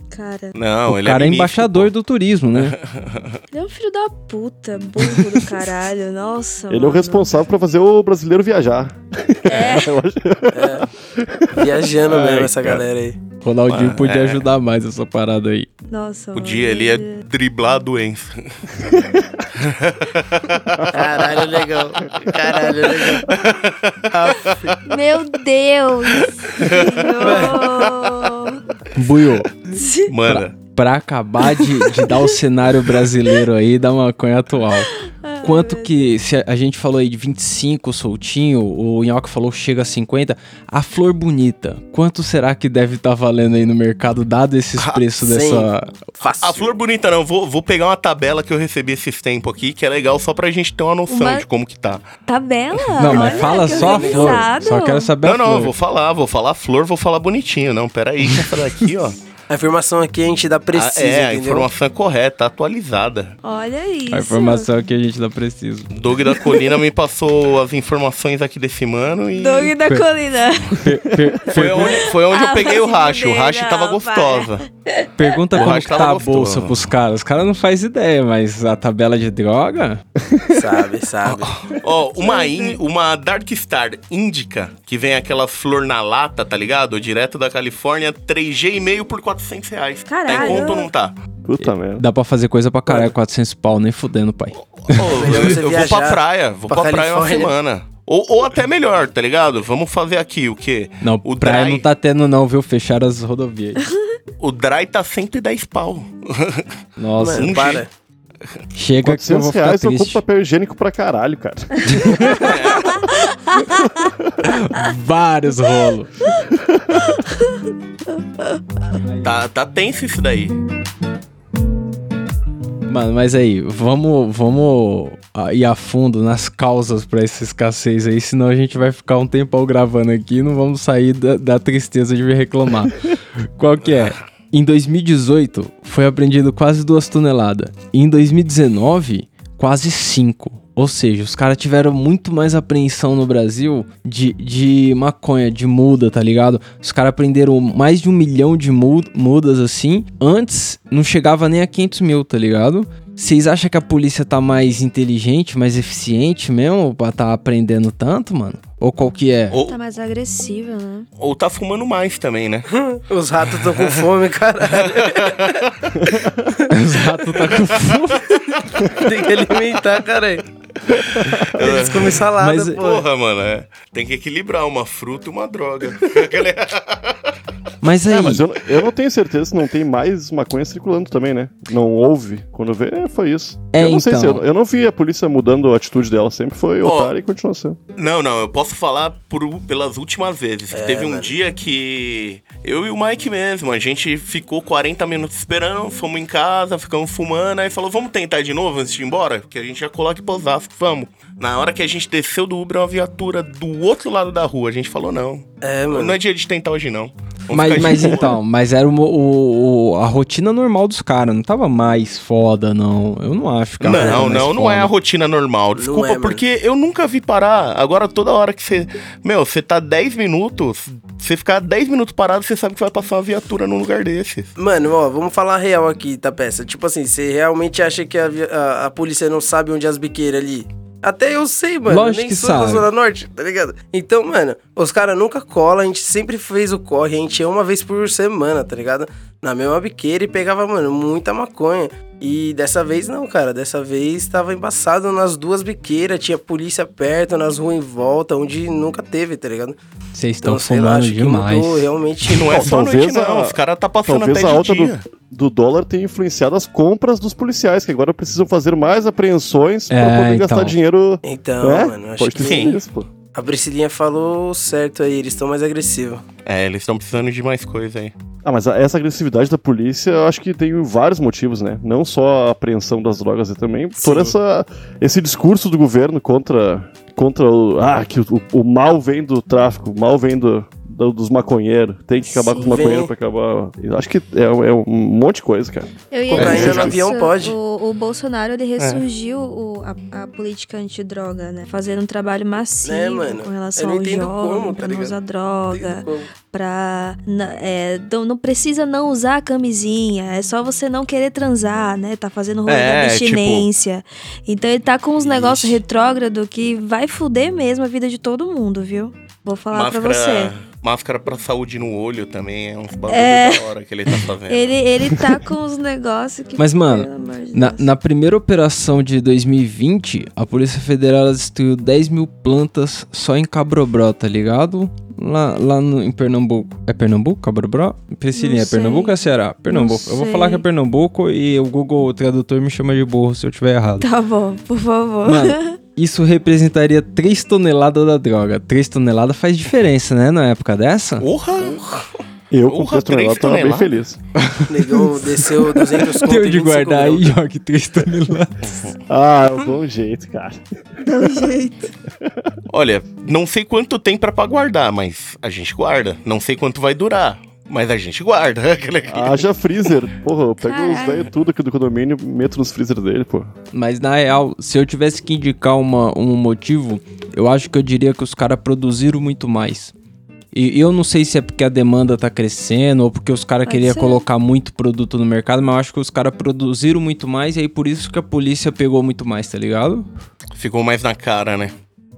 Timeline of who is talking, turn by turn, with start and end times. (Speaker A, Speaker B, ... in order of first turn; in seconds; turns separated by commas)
Speaker A: 0.1-0.6, Speaker B: 0.6-1.9, Speaker C: 0.9-2.8, Speaker B: 2.5-3.4, Speaker A: 3.5-7.3, Speaker D: 6.7-11.8, Speaker A: 9.5-10.0, Speaker E: 10.5-10.9, Speaker E: 11.5-13.2, Speaker C: 12.1-12.8, Speaker C: 13.4-15.7, Speaker B: 13.7-14.5, Speaker A: 15.8-17.2, Speaker B: 16.4-21.4, Speaker E: 20.9-23.4, Speaker B: 23.2-24.8, Speaker E: 24.1-24.6, Speaker A: 24.8-28.6, Speaker B: 26.2-28.1, Speaker E: 27.2-27.7, Speaker C: 28.9-46.0, Speaker A: 29.7-30.1, Speaker B: 30.1-30.6, Speaker A: 34.9-36.1, Speaker B: 44.8-45.0, Speaker E: 45.2-46.8, Speaker B: 46.4-52.1, Speaker A: 51.1-51.5, Speaker A: 52.3-55.1, Speaker B: 52.9-53.2, Speaker C: 53.0-55.7, Speaker E: 53.1-54.5, Speaker B: 55.2-59.2, Speaker E: 59.5-61.7, Speaker B: 60.7-63.4, Speaker A: 63.4-64.7, Speaker C: 64.1-65.9, Speaker B: 65.9-69.8, Speaker A: 69.4-70.8, Speaker C: 70.7-72.1, Speaker B: 71.5-74.7, Speaker A: 71.8-75.1, Speaker C: 75.2-80.0, Speaker B: 75.5-76.9, Speaker E: 80.5-81.5, Speaker B: 81.2-91.2, Speaker A: 82.2-82.8, Speaker A: 90.1-90.9, Speaker D: 91.5-92.0, Speaker C: 91.6-95.4, Speaker B: 94.8-101.9, Speaker E: 95.0-97.5, Speaker C: 101.0-103.9, Speaker B: 104.4-106.7, Speaker C: 107.0-107.7, Speaker E: 107.2-107.9, Speaker B: 107.2-107.8, Speaker C: 108.8-110.2, Speaker D: 109.0-112.6, Speaker C: 111.9-112.3, Speaker B: 112.2-113.0, Speaker A: 112.8-113.6, Speaker D: 113.7-114.4, Speaker C: 114.4-116.2, Speaker D: 116.5-117.1, Speaker A: 117.2-117.6, Speaker C: 119.0-119.3, Speaker B: 119.2-120.5, Speaker C: 122.9-159.6, Speaker B: 133.8-134.2, Speaker B: 159.5-159.8, Speaker A: 159.7-161.1, Speaker B: 161.2-162.7, Speaker E: 162.7-165.6, Speaker B: 163.6-164.1, Speaker B: 164.7-166.0, Speaker C: 166.7-168.4, Speaker B: 167.4-168.2, Speaker E: 168.9-170.4, Speaker B: 170.9-177.2, Speaker E: 171.5-173.0, Speaker C: 172.3-172.8, Speaker C: 177.8-178.5, Speaker D: 178.1-187.8, Speaker C: 183.7-184.4, Speaker B: 186.8-187.1, Speaker B: 187.9-208.4, Speaker E: 190.7-191.3, Speaker E: 205.6-206.2, Speaker C: 207.5-214.9, Speaker B: 213.8-224.5, Speaker E: 213.9-214.3, Speaker E: 215.8-216.4, Speaker E: 224.6-249.8, Speaker C: 231.9-232.9, Speaker C: 250.1-251.9, Speaker E: 250.4-252.7, Speaker B: 252.2-255.0, Speaker D: 252.4-263.1, Speaker C: 259.9-260.8, Speaker E: 261.2-262.8, Speaker B: 262.4-262.8, Speaker E: 263.3-266.2, Speaker B: 266.5-268.1, Speaker D: 268.4-286.9, Speaker E: 274.0-274.3, Speaker A: 282.3-282.8, Speaker E: 282.6-283.1, Speaker A: 286.1-310.5, Speaker E: 286.3-287.6, Speaker B: 286.3-286.9, Speaker B: 288.8-289.0, Speaker E: 292.8-295.1, Speaker E: 295.7-296.3, Speaker B: 302.7-303.7, Speaker B: 305.2-305.8, Speaker B: 309.7-314.8, Speaker A: 313.1-313.7, Speaker A: 314.2-317.9, Speaker C: 316.6-334.1, Speaker A: 328.4-329.2, Speaker A: 329.7-330.6, Speaker A: 334.0-335.8, Speaker C: 335.2-341.3, Speaker B: 341.2-342.0, Speaker D: 342.5-344.2, Speaker B: 342.7-343.9, Speaker C: 344.4-348.7, Speaker E: 344.7-347.3, Speaker D: 349.1-350.6, Speaker A: 351.0-351.9, Speaker D: 352.2-352.5, Speaker B: 352.7-359.9, Speaker D: 359.1-363.5, Speaker A: 360.6-361.3, Speaker C: 363.7-369.9, Speaker C: 370.5-380.1, Speaker A: 373.6-374.2, Speaker B: 380.6-381.7